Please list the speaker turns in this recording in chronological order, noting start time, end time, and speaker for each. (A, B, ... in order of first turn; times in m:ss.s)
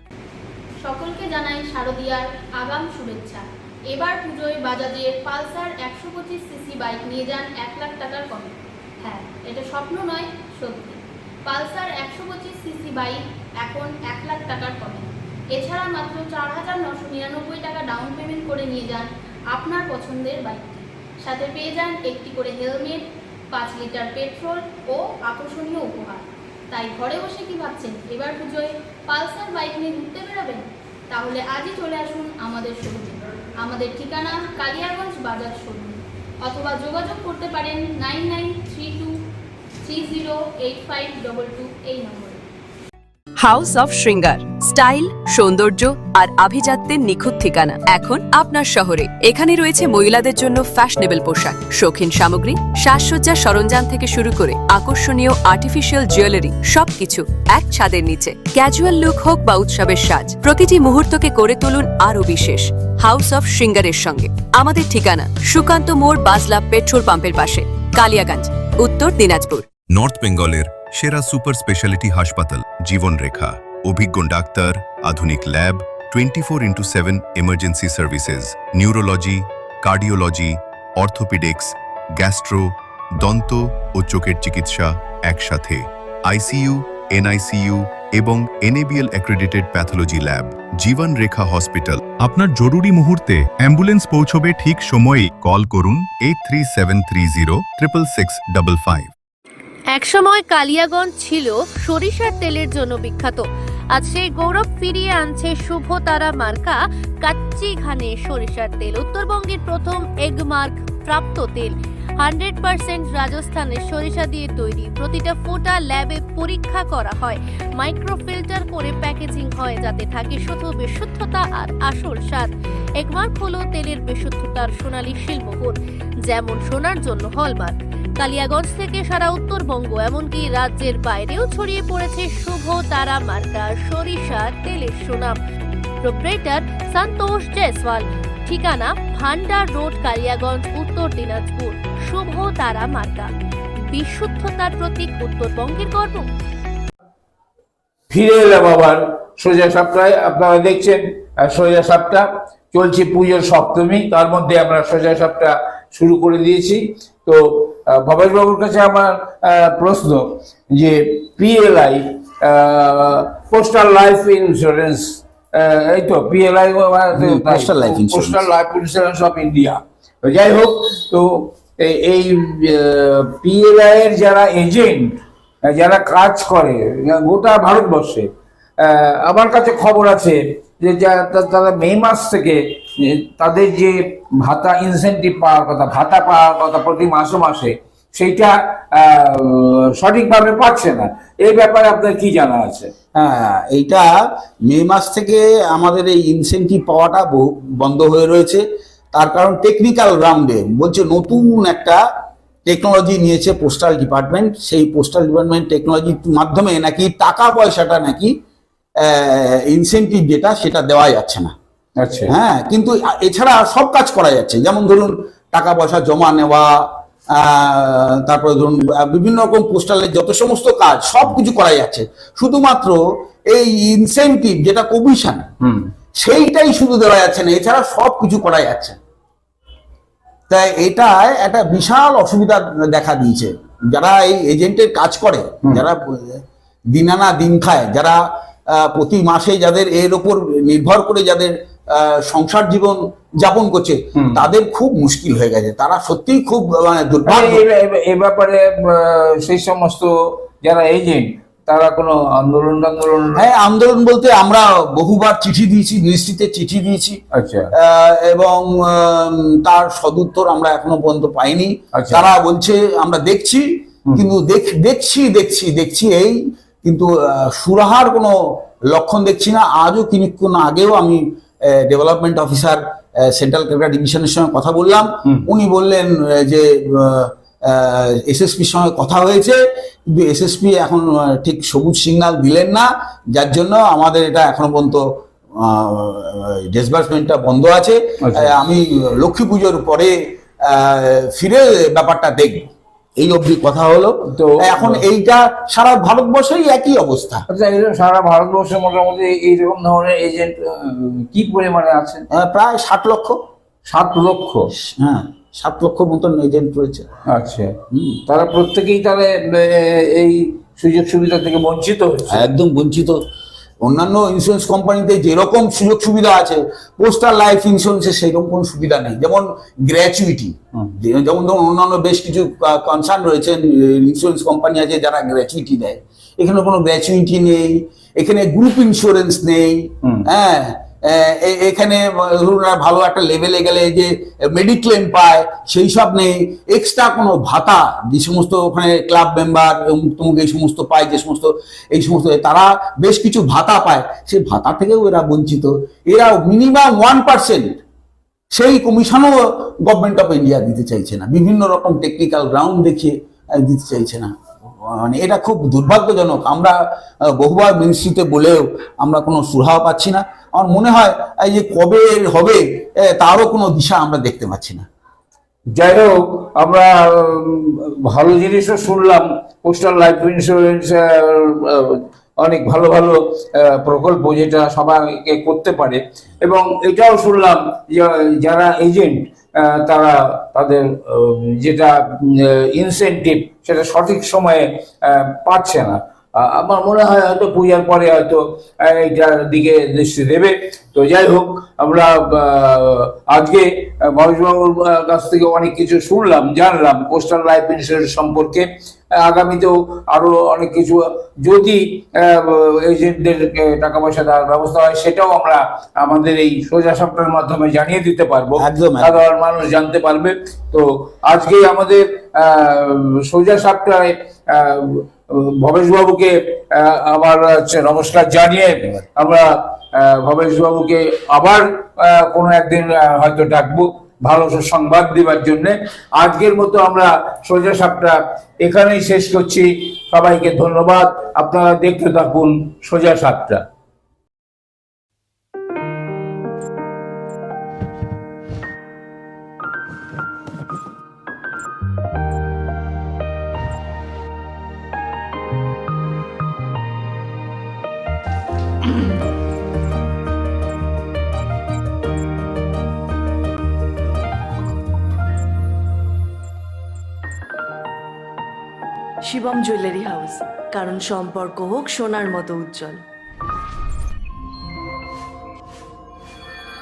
0:00.8-0:39.2 A
0:39.8-0:42.4 A
0:43.4-1:09.7 B
1:09.9-1:39.1 C
1:39.9-2:15.4 D
2:16.0-2:23.3 D
2:23.9-2:26.3 D
2:28.1-3:12.9 E
2:47.2-2:48.4 F
3:13.1-3:14.1 F
3:14.7-3:22.0 F
3:22.6-3:28.3 F
3:29.0-3:31.5 F
3:32.0-3:32.3 E
3:32.3-3:36.7 F
3:37.4-3:43.0 F
3:43.5-3:45.4 F
3:45.6-3:45.9 E
3:46.2-3:49.0 F
3:50.5-3:56.4 F
3:56.9-4:07.6 F
4:07.3-4:13.4 E
4:13.4-4:17.2 F
4:17.3-4:17.7 E
4:17.8-4:28.4 F
4:21.9-4:22.3 E
4:28.9-4:39.6 F
4:40.1-4:45.0 F
4:45.6-4:57.4 F
4:48.2-4:48.5 E
4:54.3-4:55.0 E
4:57.5-5:02.2 E
5:02.3-5:03.4 F
5:03.9-5:04.7 E
5:04.8-5:07.1 F
5:07.3-5:07.7 E
5:07.9-5:08.2 F
5:08.3-5:12.5 E
5:12.3-5:13.2 F
5:13.8-5:47.8 F
5:48.5-5:54.3 F
5:54.8-6:04.8 F
6:05.7-7:13.6 E
6:48.6-6:49.2 F
7:39.2-7:43.0 G